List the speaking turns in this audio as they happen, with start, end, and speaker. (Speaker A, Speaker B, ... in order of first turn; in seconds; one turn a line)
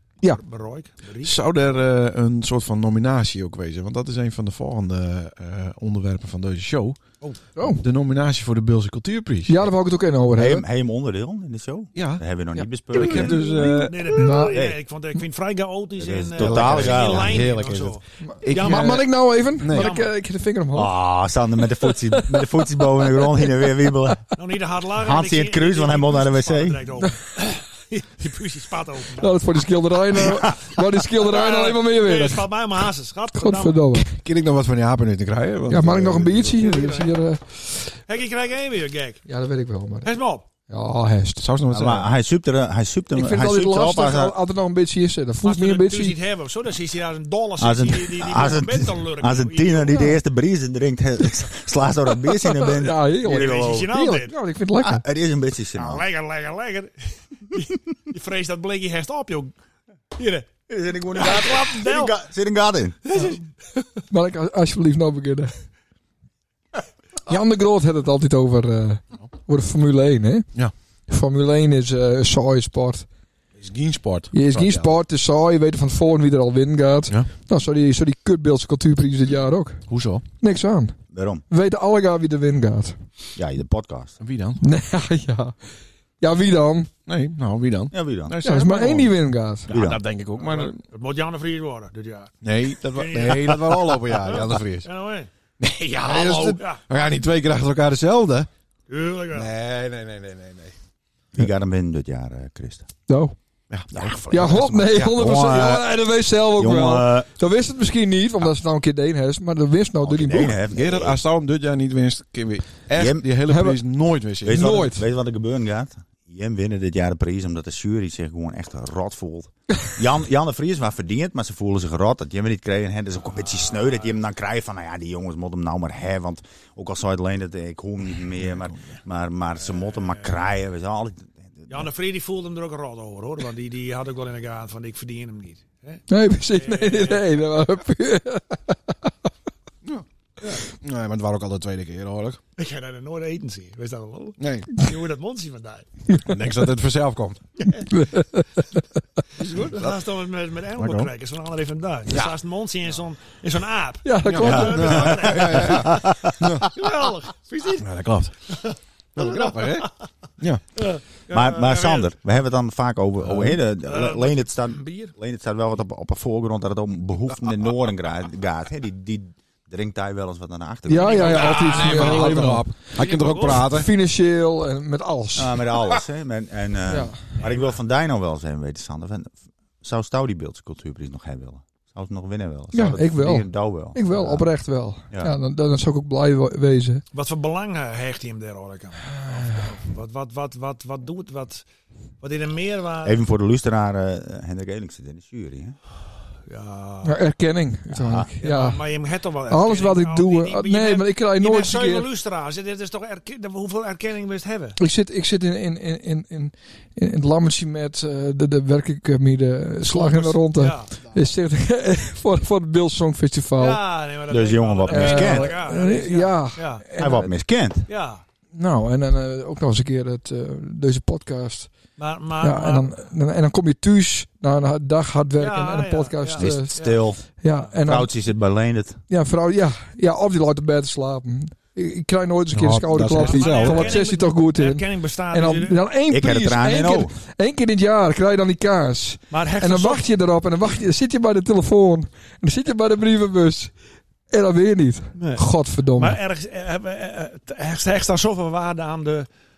Speaker A: 0.3-1.4
Speaker B: 1.2-7.0
Speaker C: 7.5-7.8
Speaker B: 7.6-9.7
Speaker C: 9.5-10.6
Speaker D: 10.3-13.4
Speaker B: 11.9-12.2
Speaker B: 12.9-14.1
Speaker C: 13.6-14.6
Speaker A: 13.8-19.1
Speaker D: 16.0-17.5
Speaker B: 16.4-19.9
Speaker C: 18.2-20.9
Speaker A: 19.7-20.1
Speaker D: 20.7-24.3
Speaker C: 21.8-23.6
Speaker A: 24.3-29.4
Speaker D: 24.9-26.8
Speaker C: 29.2-32.5
Speaker A: 31.1-33.8
Speaker C: 33.3-34.1
Speaker B: 33.9-36.6
Speaker C: 35.7-38.0
Speaker A: 36.5-37.1
Speaker A: 38.1-39.2
Speaker C: 39.3-40.1
Speaker A: 40.0-40.4
Speaker C: 40.7-41.4
Speaker B: 41.4-42.1
Speaker D: 41.7-44.3
Speaker C: 43.1-46.1
Speaker A: 45.4-50.1
Speaker D: 47.6-53.9
Speaker C: 52.2-55.0
Speaker A: 53.2-54.3
Speaker D: 54.8-56.0
Speaker A: 55.7-59.5
Speaker A: 60.1-60.5
Speaker D: 60.7-63.0
Speaker A: 61.1-62.1
Speaker A: 63.0-63.4
Speaker C: 64.1-65.5
Speaker C: 67.2-70.5
Speaker C: 71.1-73.1
Speaker B: 73.6-74.9
Speaker C: 74.3-79.8
Speaker B: 79.9-80.2
Speaker C: 80.4-81.0
Speaker D: 81.1-81.4
Speaker C: 81.5-83.0
Speaker D: 83.3-84.2
Speaker B: 84.2-84.6
Speaker C: 84.6-85.5
Speaker C: 86.2-86.9
Speaker B: 87.0-89.1
Speaker D: 87.9-88.3
Speaker C: 88.4-89.7
Speaker B: 89.7-90.8
Speaker D: 89.7-90.0
Speaker A: 90.4-92.3
Speaker B: 92.4-94.9
Speaker A: 92.9-95.3
Speaker B: 95.6-98.5
Speaker A: 96.0-96.8
Speaker A: 98.9-99.5
Speaker B: 99.3-100.7
Speaker D: 101.3-102.9
Speaker C: 103.1-103.3
Speaker B: 103.7-104.2
Speaker D: 103.9-105.9
Speaker C: 104.3-110.6
Speaker D: 106.6-107.3
Speaker D: 110.0-111.2
Speaker B: 110.7-114.9
Speaker D: 113.0-113.2
Speaker C: 113.5-113.8
Speaker D: 114.4-131.9
Speaker C: 114.4-115.0
Speaker A: 129.7-130.3
Speaker A: 131.7-136.0
Speaker C: 136.1-139.1
Speaker A: 136.5-137.2
Speaker B: 140.7-142.4
Speaker A: 142.6-145.9
Speaker B: 144.4-144.7
Speaker B: 146.2-147.4
Speaker C: 147.9-148.8
Speaker A: 149.4-156.1
Speaker B: 149.4-149.9
Speaker B: 150.8-151.1
Speaker B: 152.1-152.3
Speaker C: 154.0-155.0
Speaker B: 154.2-156.7
Speaker D: 154.4-156.3
Speaker A: 156.6-157.9
Speaker B: 157.8-158.3
Speaker A: 158.5-159.9
Speaker B: 159.1-160.6
Speaker A: 160.8-162.1
Speaker D: 161.3-171.8
Speaker B: 163.2-163.6
Speaker A: 163.8-165.1
Speaker C: 170.9-172.7
Speaker A: 171.0-173.7
Speaker B: 171.2-173.9
Speaker C: 173.4-175.7
Speaker D: 175.3-184.5
Speaker C: 176.9-177.2
Speaker A: 177.4-177.7
Speaker C: 182.7-187.0
Speaker A: 187.1-191.6
Speaker C: 189.2-189.6
Speaker A: 192.2-193.2
Speaker D: 193.0-195.8
Speaker A: 196.5-197.2
Speaker C: 197.0-198.8
Speaker D: 197.9-198.3
Speaker A: 198.4-204.8
Speaker C: 199.5-202.1
Speaker C: 204.8-213.8
Speaker A: 209.8-211.1
Speaker A: 213.6-216.8
Speaker D: 214.3-215.5
Speaker C: 214.9-217.3
Speaker D: 217.0-217.9
Speaker A: 217.9-218.2
Speaker C: 218.5-221.7
Speaker A: 222.0-222.9
Speaker C: 222.4-228.1
Speaker A: 225.4-227.0
Speaker D: 226.4-227.2
Speaker D: 227.8-229.0
Speaker C: 229.1-243.7
Speaker B: 232.5-233.9
Speaker A: 233.1-235.8
Speaker D: 236.1-237.1
Speaker A: 239.3-240.1
Speaker C: 244.3-246.2
Speaker A: 245.2-245.4
Speaker A: 245.9-249.3